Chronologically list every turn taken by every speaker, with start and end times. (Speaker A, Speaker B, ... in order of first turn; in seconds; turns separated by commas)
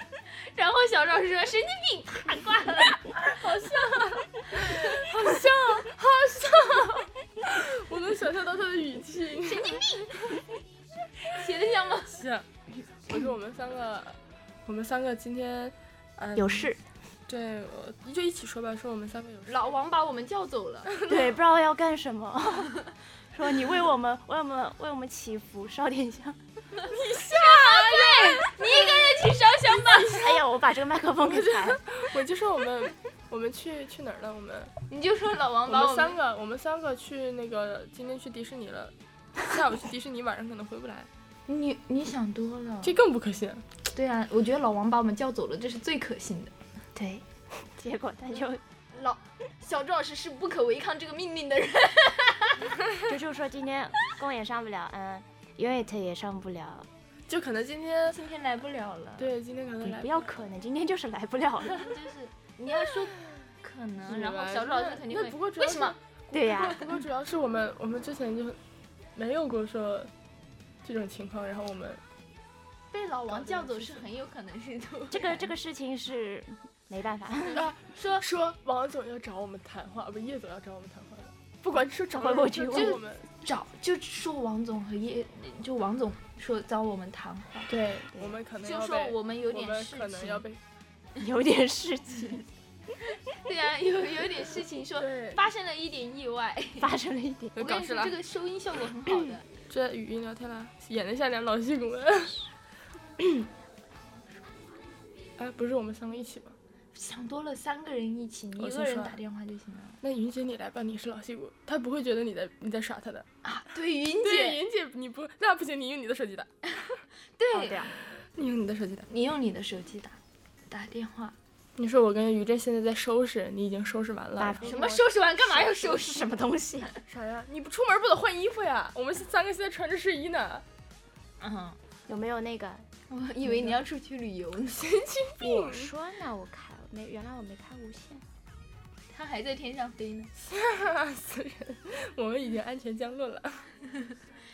Speaker A: 0.4-5.1, Speaker B: 4.1-10.0, Speaker A: 9.4-10.2, Speaker A: 11.3-12.2, Speaker B: 12.1-12.5, Speaker B: 13.1-16.7, Speaker C: 16.3-16.8, Speaker B: 17.3-19.7, Speaker A: 19.5-20.9, Speaker B: 20.9-21.3, Speaker C: 21.1-26.4, Speaker B: 26.9-29.1, Speaker A: 27.2-30.3, Speaker B: 29.7-30.4, Speaker C: 30.2-31.8, Speaker B: 31.3-34.7, Speaker A: 34.9-36.2, Speaker B: 35.7-38.9, Speaker B: 39.5-41.1, Speaker A: 41.5-43.0, Speaker B: 42.8-43.6, Speaker A: 43.9-46.5, Speaker C: 46.9-48.6, Speaker A: 48.9-52.7, Speaker C: 53.0-56.9, Speaker B: 57.3-58.2, Speaker A: 58.1-59.3, Speaker B: 59.2-60.3, Speaker C: 59.8-61.8, Speaker A: 61.7-66.0, Speaker B: 64.1-68.6, Speaker C: 66.3-66.9, Speaker B: 69.1-70.1, Speaker B: 70.8-72.0, Speaker A: 72.9-75.5, Speaker B: 73.3-74.1, Speaker C: 75.1-77.6, Speaker B: 77.5-83.3, Speaker A: 77.8-78.2, Speaker C: 82.1-83.0, Speaker A: 82.7-87.7, Speaker B: 87.7-90.6, Speaker A: 88.6-90.5, Speaker C: 91.2-92.4, Speaker A: 93.3-96.9, Speaker B: 95.0-95.4, Speaker C: 96.8-97.5, Speaker B: 97.5-98.2, Speaker A: 97.6-99.5, Speaker B: 99.7-102.4, Speaker B: 103.2-103.4, Speaker B: 105.4-106.5, Speaker A: 106.9-110.0, Speaker B: 108.6-109.2, Speaker B: 110.0-113.3, Speaker A: 113.4-114.6, Speaker B: 114.2-116.5, Speaker A: 117.4-117.9, Speaker C: 117.5-117.9, Speaker B: 118.2-119.1, Speaker A: 119.1-120.2, Speaker A: 120.7-121.3, Speaker B: 121.8-124.8, Speaker C: 124.4-126.9, Speaker A: 124.6-126.3, Speaker B: 127.1-130.6, Speaker A: 131.4-131.8, Speaker C: 132.1-132.9, Speaker A: 133.1-134.8, Speaker B: 134.7-135.9, Speaker C: 135.4-138.2, Speaker A: 139.1-140.3, Speaker B: 140.4-143.7